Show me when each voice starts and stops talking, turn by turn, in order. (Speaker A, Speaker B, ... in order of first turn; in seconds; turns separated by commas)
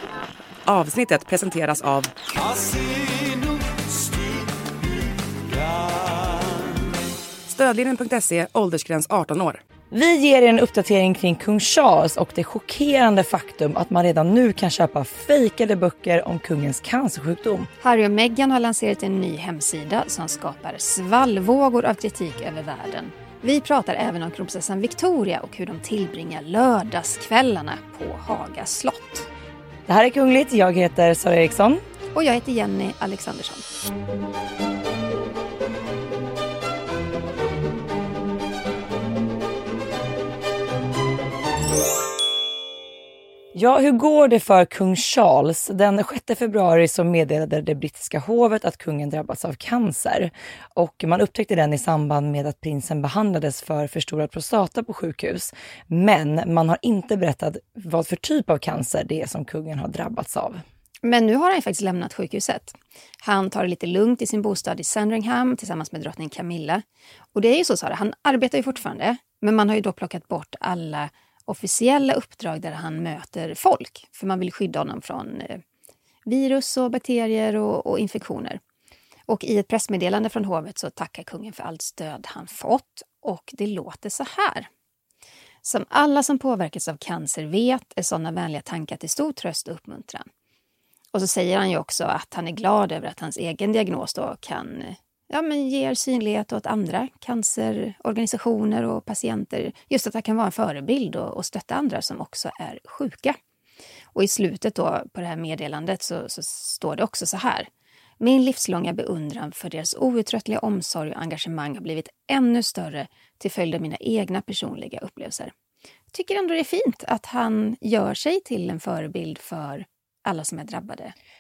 Speaker A: 0.7-2.1, Speaker A: 7.5-9.6, Speaker B: 9.9-17.7, Speaker C: 17.8-29.3, Speaker B: 29.9-31.8, Speaker C: 32.1-33.6, Speaker B: 43.5-60.6, Speaker C: 61.0-75.6, Speaker C: 76.3-78.6, Speaker C: 79.3-84.7, Speaker C: 85.6-90.3, Speaker C: 91.1-103.4, Speaker C: 104.1-107.7, Speaker C: 108.2-115.5, Speaker C: 116.1-121.1